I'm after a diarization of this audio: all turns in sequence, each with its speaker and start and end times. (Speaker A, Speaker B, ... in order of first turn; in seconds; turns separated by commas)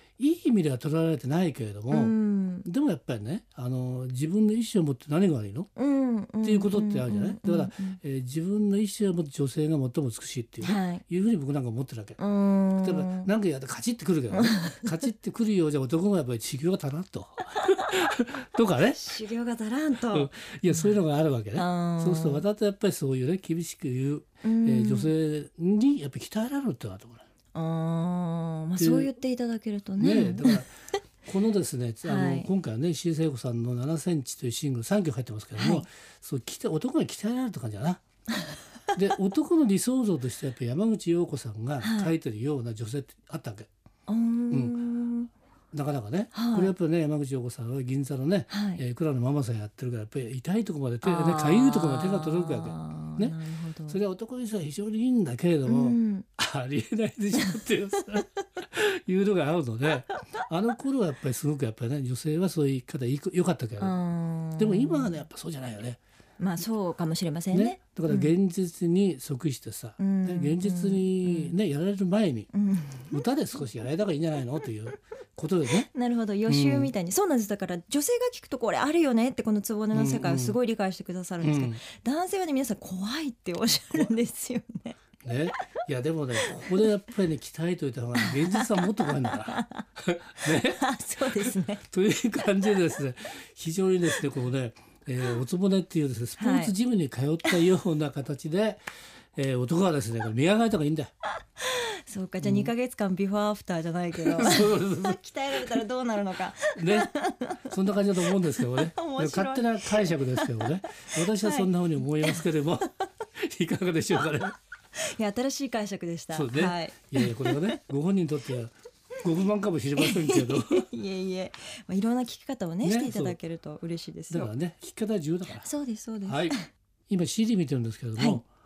Speaker A: 0.2-2.1, Speaker B: 1.9-2.7, Speaker A: 2.6-5.7, Speaker B: 5.8-8.0, Speaker A: 6.4-12.2, Speaker B: 10.6-11.0, Speaker B: 12.2-13.3, Speaker A: 12.8-19.0, Speaker B: 14.3-14.9, Speaker B: 18.9-20.9, Speaker A: 20.1-27.3, Speaker B: 21.6-22.4, Speaker B: 24.4-25.1, Speaker B: 27.5-30.6, Speaker A: 28.8-29.1, Speaker A: 30.0-30.7, Speaker A: 31.2-38.0, Speaker B: 32.0-32.5, Speaker B: 35.6-35.9, Speaker A: 38.9-43.7, Speaker B: 41.8-42.1, Speaker B: 44.1-45.3, Speaker A: 44.5-44.8, Speaker A: 45.7-53.4, Speaker B: 46.3-46.7, Speaker B: 48.5-48.8, Speaker B: 51.0-54.0, Speaker A: 53.9-63.9, Speaker B: 55.7-56.3, Speaker B: 63.8-65.2, Speaker A: 64.6-66.0, Speaker B: 66.4-68.3, Speaker A: 67.5-72.5, Speaker B: 70.0-71.6, Speaker B: 72.5-73.2, Speaker A: 73.1-75.9, Speaker B: 75.9-85.0, Speaker A: 76.5-76.9, Speaker A: 79.9-80.6, Speaker A: 81.4-81.8, Speaker A: 85.2-98.8, Speaker B: 86.4-86.9, Speaker B: 88.2-89.8, Speaker B: 90.4-91.8, Speaker B: 96.4-96.8, Speaker A: 99.3-101.1, Speaker B: 101.6-107.7, Speaker A: 102.4-102.7, Speaker A: 104.3-105.8, Speaker A: 106.8-107.1, Speaker A: 107.7-114.6, Speaker B: 108.3-112.4, Speaker B: 115.0-117.8, Speaker A: 116.3-120.9, Speaker B: 120.0-124.5, Speaker A: 122.8-123.4, Speaker A: 124.3-125.7, Speaker B: 125.6-126.7, Speaker A: 126.2-126.6, Speaker A: 127.1-128.5